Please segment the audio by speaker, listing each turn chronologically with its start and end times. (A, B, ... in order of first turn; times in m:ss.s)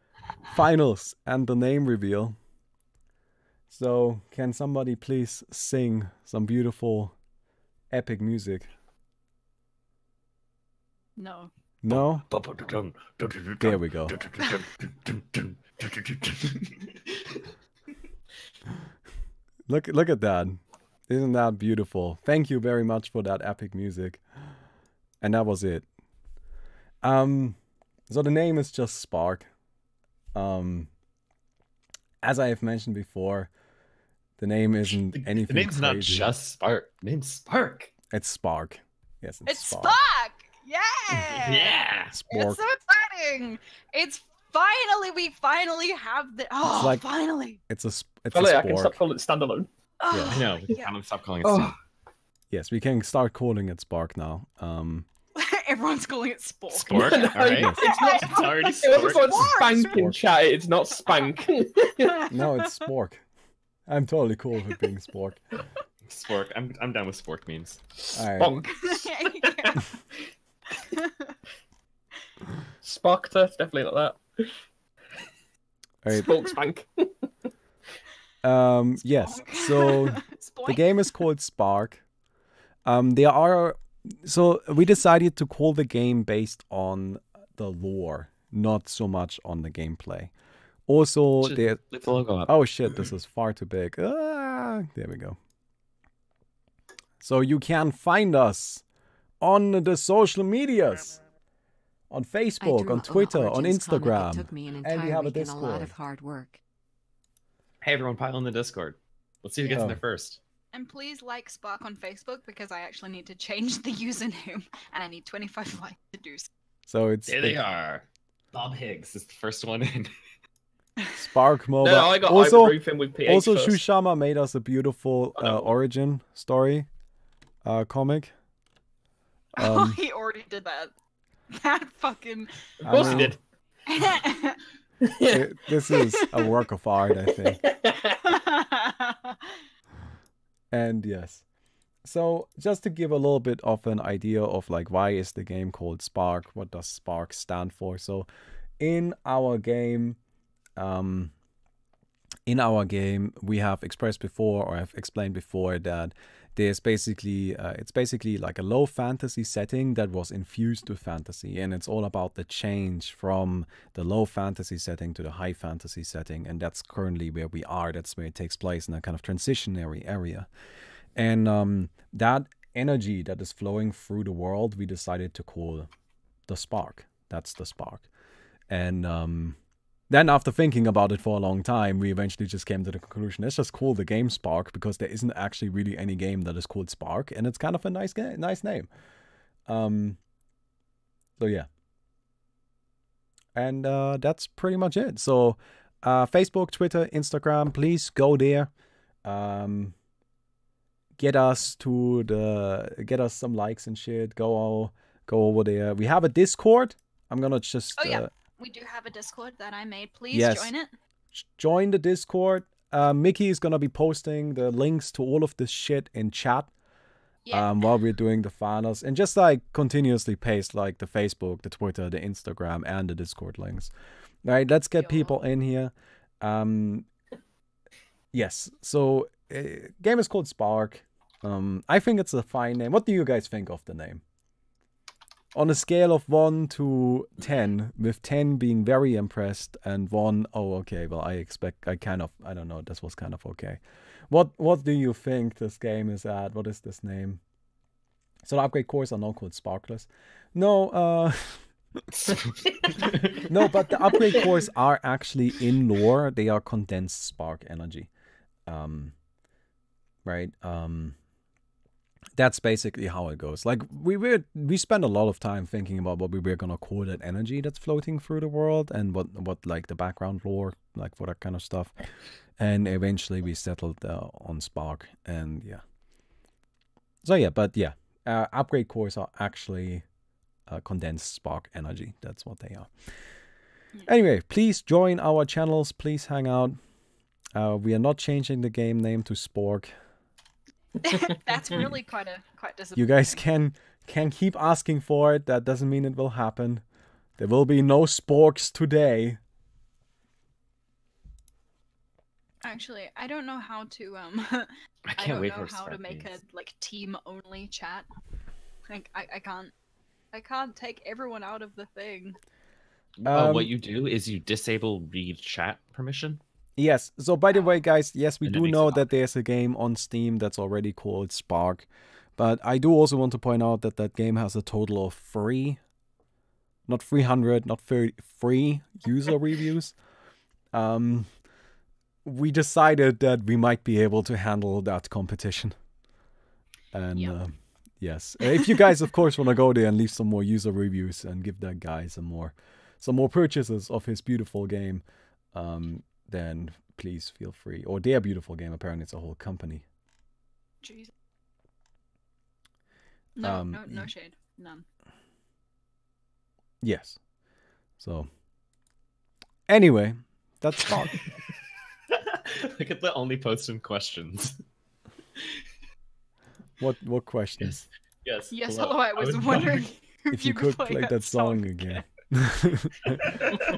0:00.5-0:02.4 A
0:03.7-0:07.1 A
0:07.9-0:08.7 A
0:11.2-0:11.5 B
0:11.8-0:12.2 A
0:11.9-0:16.8 C
0:13.6-0:14.2 A
0:19.7-0:24.2 A
0:25.2-0:25.8 A
0:27.0-0:27.6 A
0:28.1-0:29.5 A
0:30.3-0:30.9 A
0:32.2-0:33.5 A
0:34.4-0:36.3 A
0:34.9-0:37.9 C
0:38.1-0:40.0 A
0:39.4-0:47.6 B
0:41.3-0:42.2 C
0:42.1-0:42.6 A
0:46.6-0:47.0 A
0:47.7-0:49.0 A
0:48.3-0:50.8 D
0:50.1-0:50.4 A
0:50.2-0:50.9 B
0:50.3-0:51.8 C
0:51.4-0:51.8 D
0:52.5-0:55.1 A
0:55.3-1:00.2 B
0:56.7-0:59.6 C
0:56.9-1:02.3 D
0:57.5-0:57.8 A
0:59.7-1:00.3 A
1:02.3-1:03.2 A
1:03.9-1:05.4 A
1:06.1-1:07.8 C
1:08.0-1:09.9 D
1:08.1-1:08.6 A
1:08.8-1:09.8 B
1:10.8-1:11.4 B
1:12.8-1:14.5 D
1:16.0-1:16.5 A
1:16.1-1:17.2 D
1:18.4-1:22.0 A
1:19.0-1:21.2 B
1:22.9-1:30.3 A
1:30.9-1:31.8 A
1:31.4-1:33.1 C
1:32.4-1:35.4 A
1:37.2-1:38.8 A
1:39.4-1:41.2 A
1:42.1-1:46.0 A
1:42.6-1:46.6 E
1:47.8-1:50.4 C
1:49.7-1:50.0 A
1:50.7-1:56.5 B
1:56.9-1:57.6 A
1:57.3-2:00.1 C
2:01.2-2:06.9 A
2:01.8-2:03.8 D
2:05.4-2:05.7 C
2:07.6-2:08.3 A
2:09.6-2:10.0 A
2:09.6-2:10.9 B
2:11.5-2:13.2 B
2:12.8-2:13.4 A
2:12.8-2:13.4 C
2:13.9-2:14.6 B
2:15.0-2:16.2 D
2:15.2-2:17.6 A
2:17.2-2:18.2 D
2:18.2-2:19.5 B
2:20.7-2:21.4 A
2:22.0-2:28.3 A
2:28.8-2:30.2 A
2:30.8-2:31.3 A
2:32.5-2:50.5 A
2:51.2-2:55.9 A
2:56.5-2:58.0 A
2:58.7-2:59.6 A
3:00.1-3:08.9 A
3:09.7-3:10.2 A
3:11.4-3:11.7 A
3:13.5-3:18.7 A
3:19.2-3:19.9 A
3:21.2-3:28.3 A
3:28.0-3:30.9 B
3:30.3-3:30.7 A
3:31.3-3:36.7 A
3:37.4-3:37.9 B
3:37.5-3:43.9 A
3:44.4-3:47.1 A
3:45.0-3:45.4 B
3:48.3-3:54.2 A
3:55.5-4:07.4 A
4:08.4-4:12.0 A
4:12.3-4:13.4 C
4:13.4-4:18.1 A
4:18.7-4:19.2 A
4:20.2-4:21.2 A
4:22.4-4:32.0 A
4:32.6-4:35.8 A
4:37.2-4:40.0 A
4:40.7-4:42.9 A
4:44.1-4:46.8 A
4:47.6-4:49.9 A
4:51.0-4:53.4 B
4:53.0-4:56.8 A
4:57.4-4:59.4 A
5:02.6-5:08.1 B
5:05.1-5:06.3 C
5:08.9-5:09.7 B
5:10.3-5:12.4 B
5:13.2-5:16.4 C
5:13.2-5:13.7 A
5:16.8-5:25.8 A
5:18.4-5:19.1 C
5:26.9-5:29.9 A
5:30.7-5:31.3 A
5:32.2-5:35.8 A
5:36.9-5:49.8 A
5:50.8-5:51.1 B
5:53.4-5:54.8 B
5:53.4-5:54.1 A
5:56.8-5:57.2 A
5:58.0-5:58.3 A
5:59.7-6:01.3 A
6:02.1-6:04.6 C
6:06.8-6:07.8 A
6:07.6-6:09.9 C
6:08.5-6:12.0 B
6:10.3-6:13.4 A
6:13.1-6:13.6 C